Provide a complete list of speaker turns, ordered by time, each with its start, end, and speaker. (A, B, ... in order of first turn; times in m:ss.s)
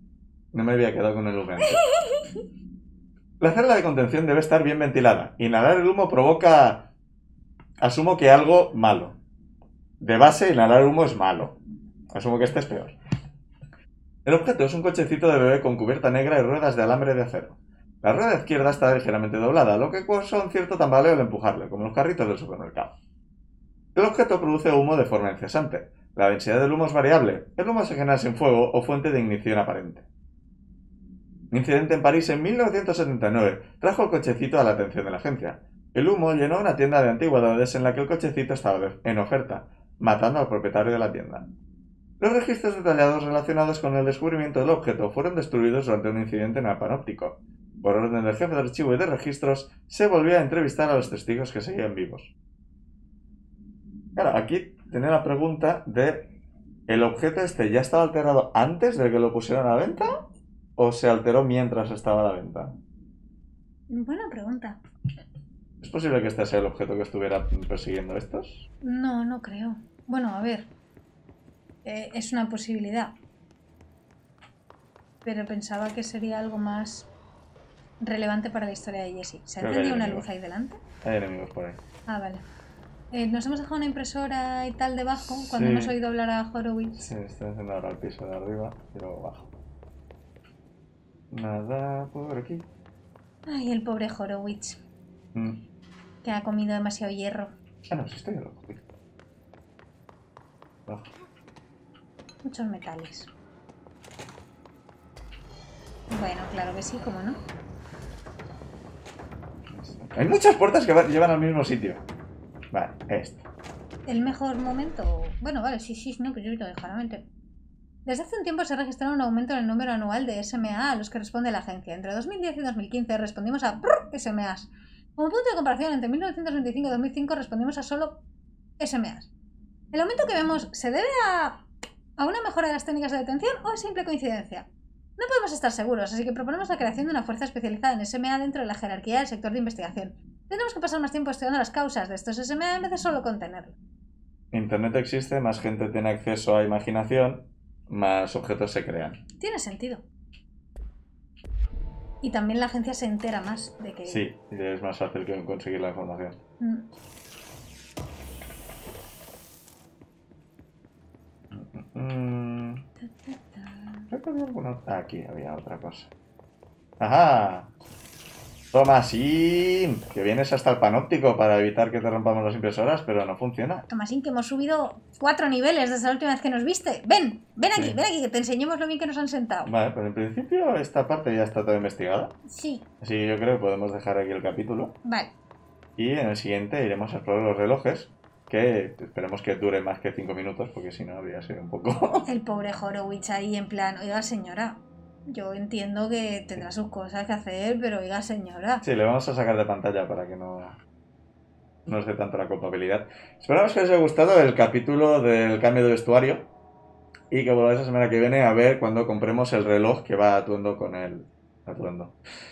0:00.5-0:01.8 A
0:01.6-0:02.5 B
0:03.4-0:06.9 A
0:07.8-0:09.2 A
0:10.0-0:11.6 A
0:12.1-0:13.0 A
0:14.2-0:22.9 A
0:24.0-0:30.0 A
0:31.5-0:41.5 A
0:42.2-0:52.3 A
0:54.2-0:56.3 A
0:56.9-1:00.2 A
1:00.8-1:02.8 A
1:03.9-1:04.8 B
1:05.8-1:08.7 A
1:08.8-1:10.7 B
1:11.8-1:13.1 B
1:15.2-1:17.1 B
1:18.0-1:20.8 B
1:19.6-1:20.3 A
1:21.0-1:21.8 A
1:22.1-1:22.4 B
1:23.1-1:27.1 B
1:25.2-1:26.0 A
1:27.0-1:29.5 A
1:31.3-1:32.6 A
1:33.5-1:34.8 B
1:35.4-1:35.6 A
1:36.2-1:37.5 B
1:37.9-1:38.8 A
1:42.4-1:43.3 B
1:46.1-1:47.4 B
1:49.7-1:52.0 A
1:52.7-1:53.4 A
1:54.1-1:57.2 B
1:58.1-2:08.2 B
2:08.8-2:09.3 B
2:09.9-2:11.6 B
2:12.2-2:14.7 B
2:15.2-2:23.8 B
2:24.5-2:29.2 A
2:29.4-2:30.0 B
2:32.2-2:34.2 B
2:34.1-2:36.4 A
2:36.6-2:36.9 B
2:41.5-2:42.8 A
2:43.0-2:44.1 B
2:44.1-2:46.1 A
2:47.0-2:47.7 A
2:48.7-2:53.9 A
2:53.9-2:59.7 B
2:59.6-3:02.4 A
3:02.5-3:02.8 B
3:03.0-3:05.0 A
3:05.0-3:05.3 B
3:06.0-3:12.3 A
3:12.3-3:18.8 B
3:18.8-3:20.8 A
3:21.9-3:26.5 A
3:27.3-3:32.2 A